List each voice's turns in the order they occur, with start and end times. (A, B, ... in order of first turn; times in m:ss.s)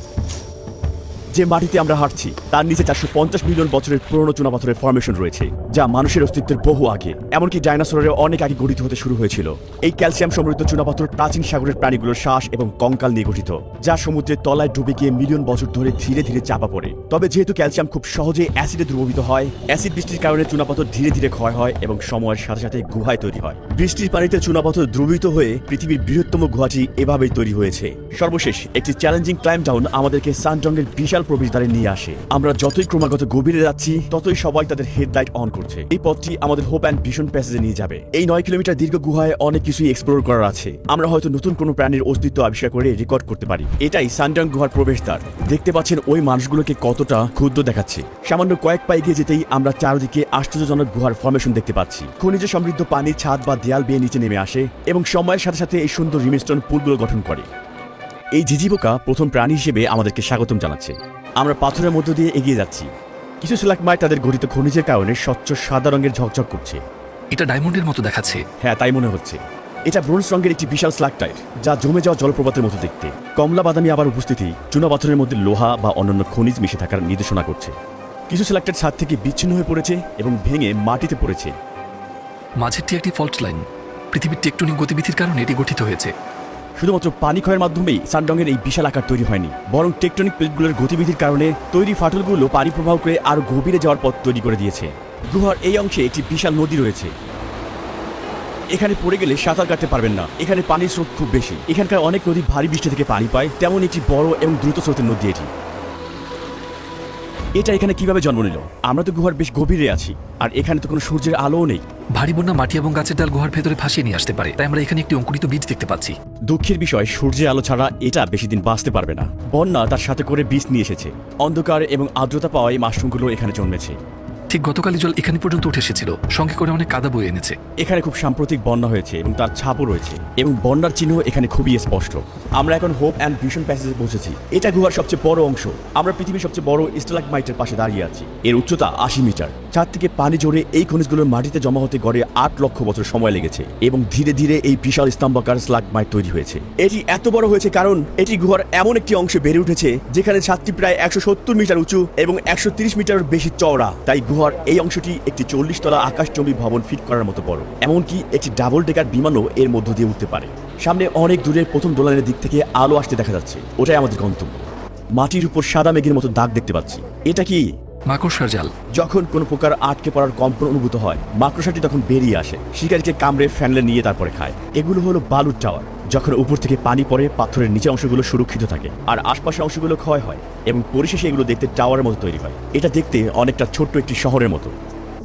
0:01.3-0:57.5 A
0:58.4-1:02.9 A
1:03.4-1:06.8 A
1:07.3-1:08.4 B
1:08.6-1:17.7 A
1:18.3-1:21.5 A
1:22.6-1:26.1 B
1:26.8-1:37.1 A
1:38.7-1:45.5 A
1:47.6-1:51.8 A
1:52.2-1:56.2 B
1:56.5-2:04.0 A
2:04.5-2:07.6 B
2:07.8-2:44.6 A
2:45.2-2:47.7 A
2:48.1-2:48.7 B
2:49.0-3:04.7 A